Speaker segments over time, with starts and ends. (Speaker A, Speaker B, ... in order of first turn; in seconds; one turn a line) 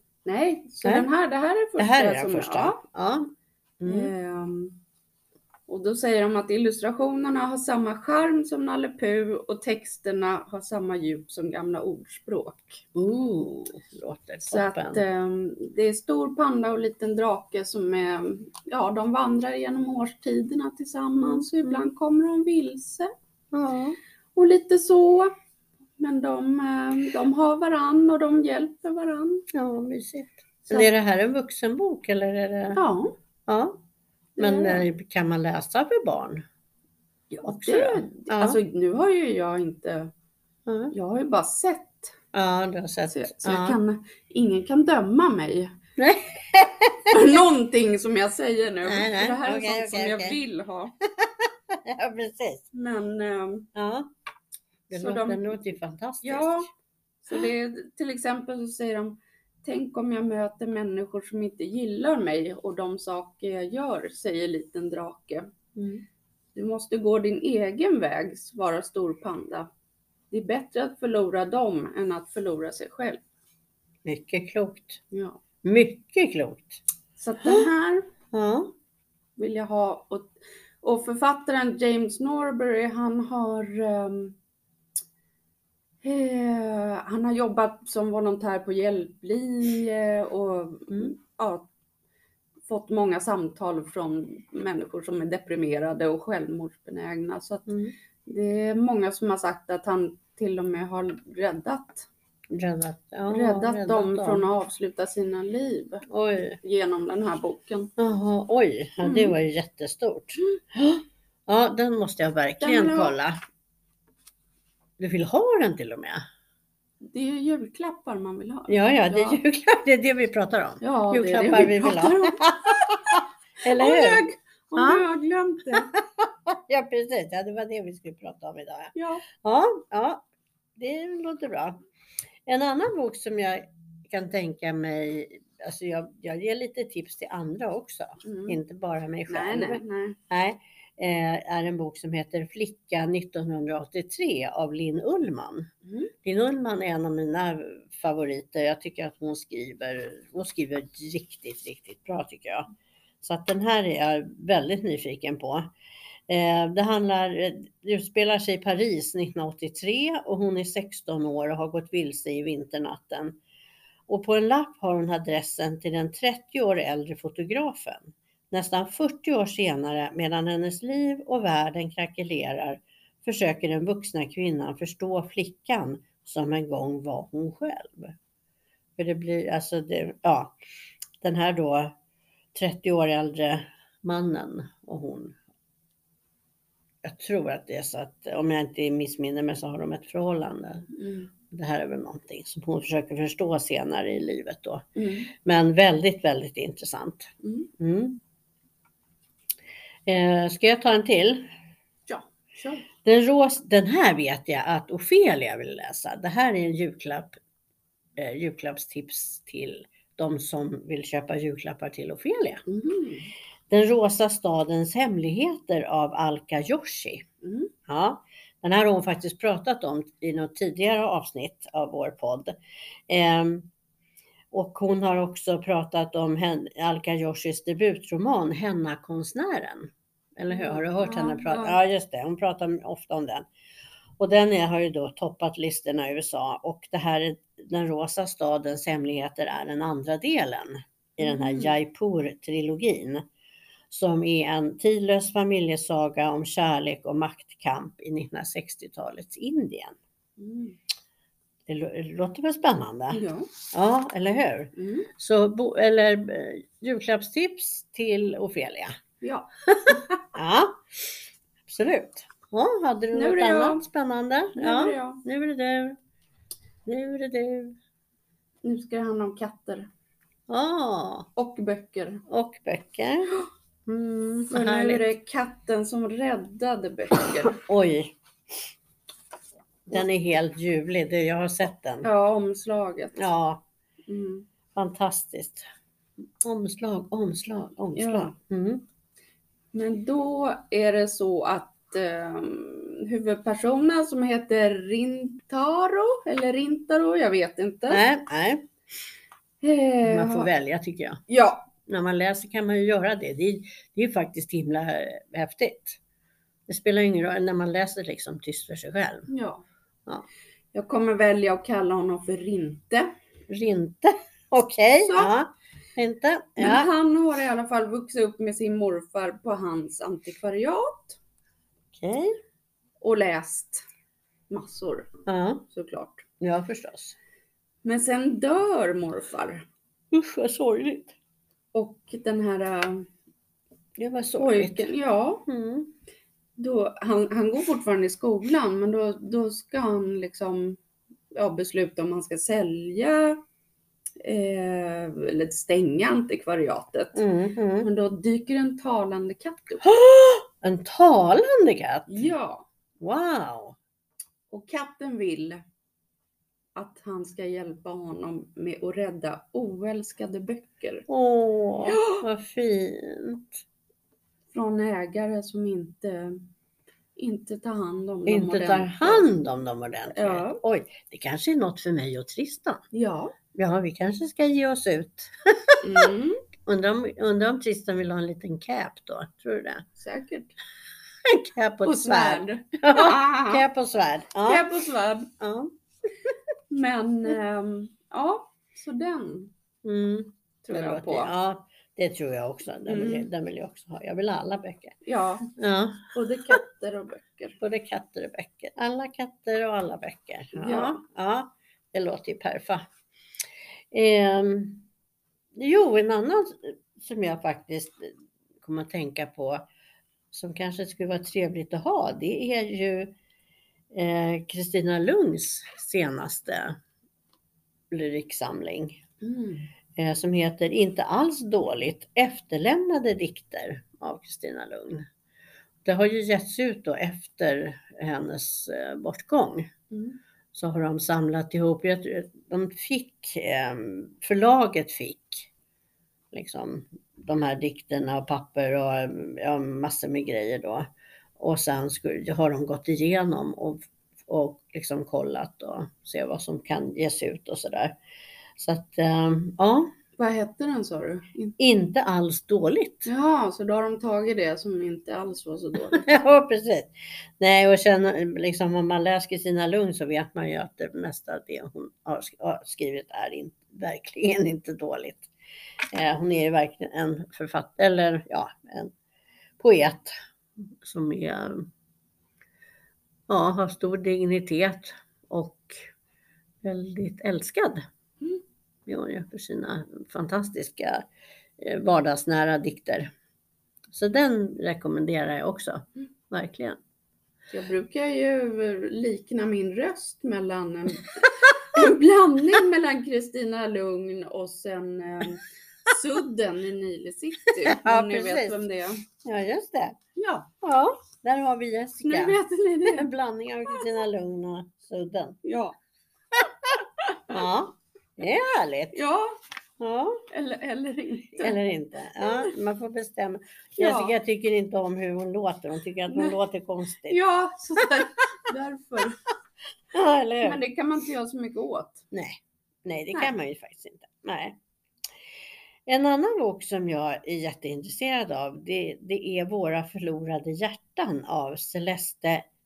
Speaker A: 0.2-2.8
Speaker B: 1.8-4.1
Speaker A: 3.9-4.8
Speaker A: 5.7-12.8
Speaker B: 12.9-15.0
Speaker A: 14.5-23.1
Speaker B: 21.2-21.9
Speaker B: 23.5-24.0
Speaker A: 24.4-25.3
Speaker A: 26.0-29.4
Speaker B: 29.5-32.8
Speaker A: 32.7-33.1
Speaker B: 33.5-33.8
Speaker A: 34.4-34.9
Speaker B: 34.4-36.5
Speaker A: 37.3-40.1
Speaker B: 37.5-38.6
Speaker B: 40.7-40.9
Speaker A: 40.9-42.1
Speaker B: 42.3-43.8
Speaker A: 43.1-45.8
Speaker B: 46.0-47.1
Speaker A: 47.1-50.9
Speaker B: 48.9-50.4
Speaker B: 51.0-52.6
Speaker A: 52.7-53.7
Speaker B: 53.8-54.1
Speaker B: 54.9-56.6
Speaker A: 54.9-55.5
Speaker A: 56.2-56.7
Speaker A: 57.2-65.5
Speaker B: 65.8-66.0
Speaker A: 66.5-69.7
Speaker A: 70.3-73.2
Speaker B: 74.0-75.0
Speaker A: 75.1-75.4
Speaker B: 75.6-76.8
Speaker A: 77.2-78.1
Speaker B: 78.3-78.7
Speaker A: 79.4-84.4
Speaker A: 86.0-91.7
Speaker A: 92.7-97.7
Speaker B: 97.7-97.9
Speaker A: 98.2-102.1
Speaker B: 102.5-104.5
Speaker A: 103.3-106.0
Speaker B: 106.1-106.6
Speaker A: 106.6-107.9
Speaker B: 108.0-113.4
Speaker A: 109.0-109.3
Speaker A: 112.6-113.1
Speaker B: 115.0-116.2
Speaker A: 117.0-119.4
Speaker B: 118.7-124.2
Speaker A: 120.8-125.9
Speaker B: 124.8-125.0
Speaker B: 125.7-131.8
Speaker A: 128.9-129.2
Speaker B: 132.5-145.7
Speaker A: 138.2-138.6
Speaker A: 139.3-140.2
Speaker A: 145.8-146.1
Speaker B: 146.2-152.7
Speaker B: 153.2-155.7
Speaker B: 156.3-163.4
Speaker B: 164.1-178.2
Speaker B: 179.0-180.6
Speaker B: 181.2-181.9
Speaker B: 182.5-185.4
Speaker B: 187.0-190.9
Speaker A: 190.9-191.3
Speaker B: 191.5-198.2
Speaker A: 195.0-195.3
Speaker A: 197.4-197.7
Speaker B: 200.1-201.5
Speaker A: 202.1-202.8
Speaker B: 203.0-207.4
Speaker B: 208.2-212.6
Speaker A: 212.7-213.3
Speaker B: 213.7-217.2
Speaker A: 217.4-217.7
Speaker B: 217.9-222.6
Speaker B: 223.1-223.7
Speaker B: 224.5-233.5
Speaker A: 230.5-231.8
Speaker B: 234.2-243.2
Speaker A: 241.2-241.8
Speaker B: 243.9-250.0
Speaker A: 250.4-250.8
Speaker B: 251.7-258.9
Speaker A: 253.1-253.5
Speaker A: 254.8-255.1
Speaker A: 259.2-260.2
Speaker B: 259.9-266.0
Speaker A: 263.1-263.8
Speaker A: 264.6-265.2
Speaker B: 266.9-267.8
Speaker A: 268.6-269.9
Speaker B: 270.5-271.3
Speaker A: 271.4-272.2
Speaker B: 272.3-273.3
Speaker B: 273.9-275.0
Speaker A: 274.5-277.6
Speaker B: 277.4-278.1
Speaker B: 279.9-282.1
Speaker A: 282.0-283.2
Speaker B: 283.1-283.6
Speaker A: 284.1-284.5
Speaker B: 284.8-285.6
Speaker B: 286.4-288.9
Speaker A: 288.0-288.3
Speaker A: 289.7-298.0
Speaker B: 297.9-298.6
Speaker A: 299.6-300.5
Speaker B: 300.0-301.2
Speaker A: 301.3-301.7
Speaker B: 301.9-306.0
Speaker B: 306.7-309.3
Speaker A: 309.3-309.6
Speaker A: 310.7-313.1
Speaker B: 313.5-316.9
Speaker A: 315.1-315.3
Speaker A: 316.6-321.2
Speaker B: 321.9-322.3
Speaker A: 323.0-323.8
Speaker A: 324.5-325.1
Speaker B: 325.3-325.6
Speaker A: 325.7-326.2
Speaker B: 326.4-327.1
Speaker A: 327.8-329.6
Speaker B: 330.1-331.1
Speaker A: 331.7-333.1
Speaker B: 334.0-334.9
Speaker A: 334.4-335.5
Speaker B: 335.5-335.9
Speaker A: 336.6-340.8
Speaker A: 341.3-343.4
Speaker A: 344.2-347.2
Speaker B: 347.1-347.9
Speaker A: 347.8-349.9
Speaker B: 349.8-352.2
Speaker A: 352.1-352.6
Speaker B: 353.0-353.8
Speaker A: 354.5-355.6
Speaker A: 356.8-361.1
Speaker B: 361.1-363.6
Speaker A: 361.9-362.2
Speaker A: 364.5-366.4
Speaker A: 367.1-369.3
Speaker B: 368.3-372.8
Speaker A: 370.1-370.6
Speaker A: 372.9-373.3
Speaker B: 373.5-376.1
Speaker A: 375.8-376.4
Speaker B: 376.6-379.9
Speaker A: 380.0-380.5
Speaker B: 381.2-384.6
Speaker A: 381.8-383.6
Speaker A: 384.4-385.3
Speaker B: 385.4-385.7
Speaker A: 386.7-389.5
Speaker B: 389.8-395.0
Speaker A: 390.6-391.3
Speaker A: 392.9-393.3
Speaker A: 395.0-395.5
Speaker B: 395.6-396.6
Speaker A: 396.1-397.6
Speaker B: 397.6-402.9
Speaker A: 400.5-401.0
Speaker B: 403.9-404.9
Speaker B: 405.5-409.6
Speaker B: 410.3-413.1
Speaker B: 413.9-416.8
Speaker B: 417.9-419.0
Speaker A: 419.2-419.7
Speaker B: 420.0-425.1
Speaker B: 425.9-429.7
Speaker A: 429.9-430.2
Speaker B: 430.5-435.5
Speaker B: 436.3-440.9
Speaker B: 441.4-447.9
Speaker B: 448.6-449.9
Speaker A: 450.2-451.6
Speaker B: 451.6-453.1
Speaker A: 453.1-456.1
Speaker B: 455.9-465.3
Speaker B: 465.9-468.9
Speaker B: 469.6-470.1
Speaker B: 470.8-471.7
Speaker B: 473.3-475.8
Speaker B: 476.6-477.9
Speaker B: 478.9-481.0
Speaker B: 481.6-483.1
Speaker B: 483.9-486.8
Speaker A: 487.5-499.0
Speaker B: 497.6-498.6
Speaker B: 499.2-500.0
Speaker A: 500.1-500.5
Speaker B: 500.6-505.4
Speaker A: 502.0-503.1
Speaker A: 505.4-505.8
Speaker A: 506.8-507.2
Speaker B: 507.3-509.0
Speaker A: 508.9-509.4
Speaker B: 509.8-510.2
Speaker A: 510.3-511.6
Speaker B: 511.4-517.2
Speaker A: 512.2-512.5
Speaker A: 513.8-514.1
Speaker A: 516.1-516.4
Speaker A: 517.1-519.2
Speaker B: 519.9-520.6
Speaker A: 520.4-522.0
Speaker B: 522.1-524.6
Speaker B: 525.9-532.5